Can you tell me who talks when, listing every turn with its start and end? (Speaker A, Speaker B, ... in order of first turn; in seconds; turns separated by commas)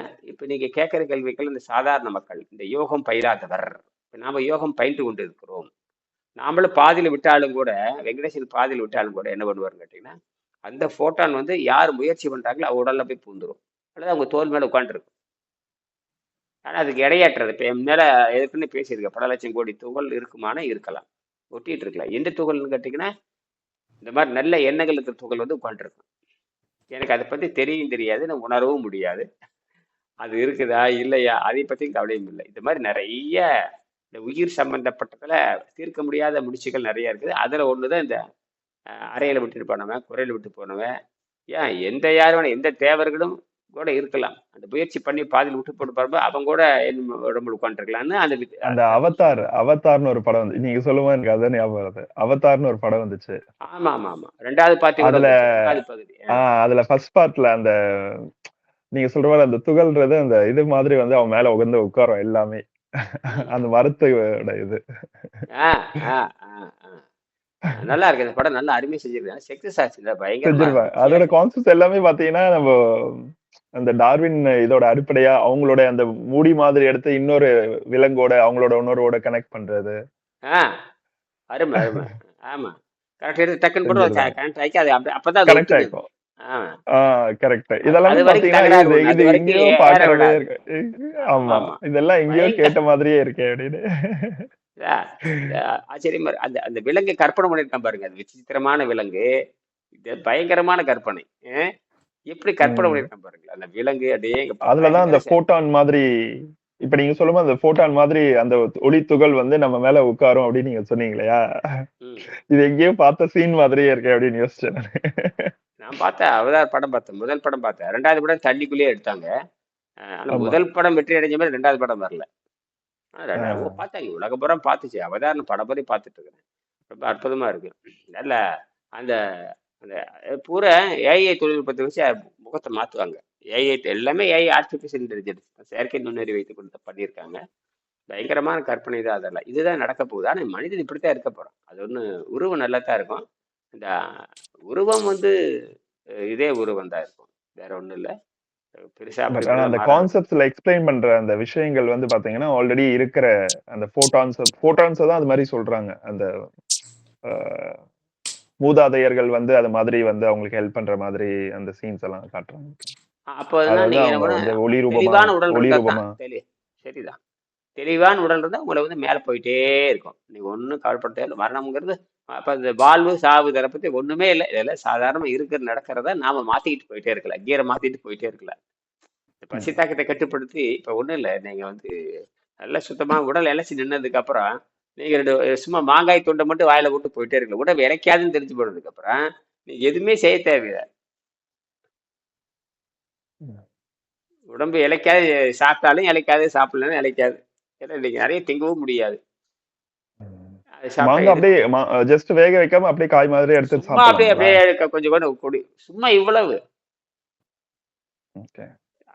Speaker A: 0.3-5.7, Speaker A: 6.4-10.1, Speaker A: 10.7-15.1, Speaker A: 16.7-23.1, Speaker A: 24.0-26.0, Speaker A: 26.9-29.3, Speaker A: 30.2-33.4, Speaker A: 34.1-38.2, Speaker A: 39.1-40.9, Speaker A: 41.5-49.1, Speaker B: 48.6-53.4, Speaker A: 53.7-56.4, Speaker B: 55.0-55.8, Speaker B: 56.3-58.3, Speaker B: 58.9-64.8, Speaker A: 65.5-67.0, Speaker A: 67.7-71.3, Speaker B: 70.5-80.0, Speaker A: 81.5-85.9, Speaker B: 83.8-84.3, Speaker B: 85.5-86.0, Speaker A: 86.4-86.7, Speaker B: 86.9-94.5, Speaker A: 87.8-90.5, Speaker A: 91.4-91.8, Speaker A: 92.3-92.7, Speaker A: 94.8-99.2, Speaker A: 100.0-101.7, Speaker A: 102.3-105.3, Speaker B: 102.6-103.1, Speaker B: 104.7-111.8, Speaker B: 112.5-115.5, Speaker A: 115.8-119.3, Speaker A: 120.2-122.2, Speaker B: 120.3-120.6, Speaker A: 123.2-126.3, Speaker B: 123.4-123.8, Speaker A: 126.9-128.4, Speaker A: 129.8-137.4, Speaker A: 138.1-143.2, Speaker A: 144.7-145.3, Speaker A: 146.3-148.1, Speaker A: 148.9-150.1, Speaker B: 149.3-156.3, Speaker B: 157.2-157.8, Speaker B: 158.6-162.9, Speaker A: 163.3-167.2, Speaker B: 163.7-166.1, Speaker A: 167.8-178.5, Speaker A: 179.4-181.9, Speaker A: 182.6-190.8, Speaker A: 194.5-199.2, Speaker B: 200.2-204.6, Speaker A: 200.8-201.4, Speaker A: 203.7-206.6, Speaker B: 208.4-208.7